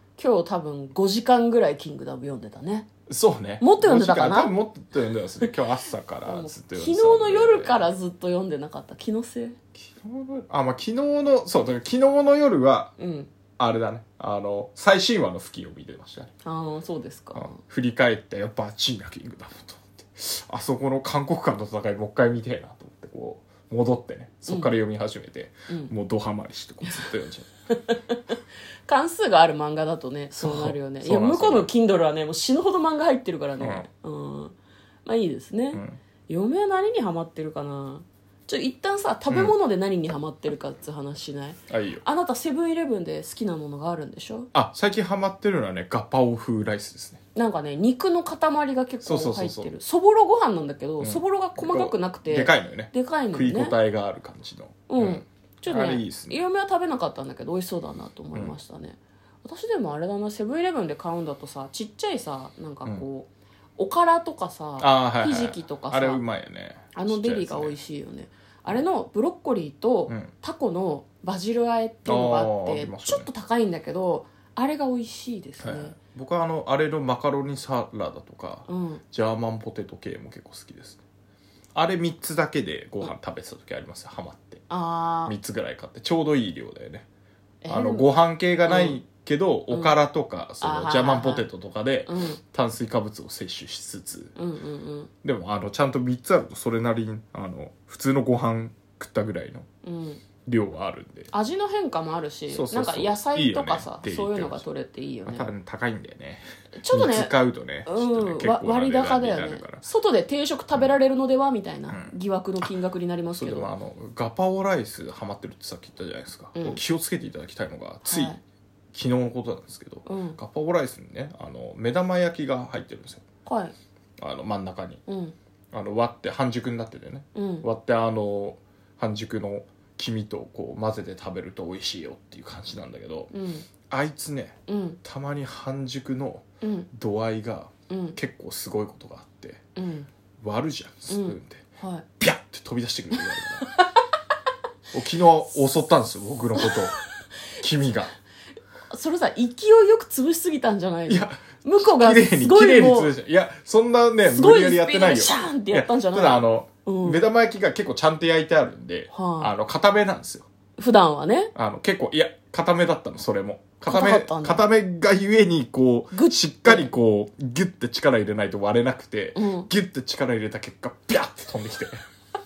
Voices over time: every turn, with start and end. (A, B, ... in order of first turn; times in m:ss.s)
0:00.2-0:02.9 A
0:03.1-0:07.9 B
0:03.6-0:04.6 A
0:06.2-0:09.6 A
0:09.8-0:13.0 B
0:13.0-0:13.3 A
0:13.6-0:16.3 B
0:16.4-0:17.6 A
0:17.3-0:27.5 B
0:24.5-0:24.7 A
0:27.7-0:44.5 A
0:30.4-0:31.7 B
0:33.6-0:33.9 B
0:35.7-0:36.0 B
0:39.3-0:39.6 B
0:41.7-0:42.0 B
0:44.5-0:47.2 B
0:47.4-0:53.8 A
0:49.0-0:49.7 B
0:51.0-0:56.4 B
0:54.9-1:06.2 A
1:04.8-1:07.8 B
1:06.9-1:16.0 A
1:12.1-1:13.3 B
1:15.6-1:21.0 B
1:18.7-1:19.0 A
1:21.8-1:24.7 B
1:24.7-1:25.3 A
1:25.3-1:27.1 B
1:27.6-1:28.1 A
1:27.7-1:34.3 B
1:28.6-1:29.0 A
1:29.7-1:30.0 A
1:30.6-1:31.5 A
1:32.1-1:32.4 A
1:34.4-1:35.1 A
1:35.2-1:39.7 B
1:39.8-1:40.2 A
1:40.5-1:41.3 B
1:41.3-1:45.5 A
1:42.5-1:44.6 B
1:45.3-1:49.8 B
1:46.8-1:53.7 A
1:51.9-1:52.7 B
1:53.4-1:58.4 B
1:58.0-1:58.4 A
1:58.9-2:03.2 B
2:00.1-2:00.4 A
2:03.4-2:03.8 A
2:04.2-2:05.0 B
2:05.1-2:05.4 A
2:05.7-2:13.3 B
2:07.4-2:07.7 A
2:13.3-2:13.7 A
2:13.9-2:19.6 B
2:14.7-2:15.0 A
2:16.6-2:16.9 A
2:17.9-2:18.2 A
2:19.8-2:20.1 A
2:20.4-2:21.7 B
2:21.1-2:22.1 A
2:22.2-2:23.7 B
2:24.9-2:27.0 B
2:27.6-2:28.1 B
2:28.9-2:33.1 A
2:31.1-2:40.5 B
2:34.3-2:37.2 A
2:39.1-2:39.5 A
2:40.8-2:41.5 A
2:41.6-2:52.0 B
2:43.9-2:44.6 A
2:46.1-2:46.9 A
2:49.4-2:49.7 A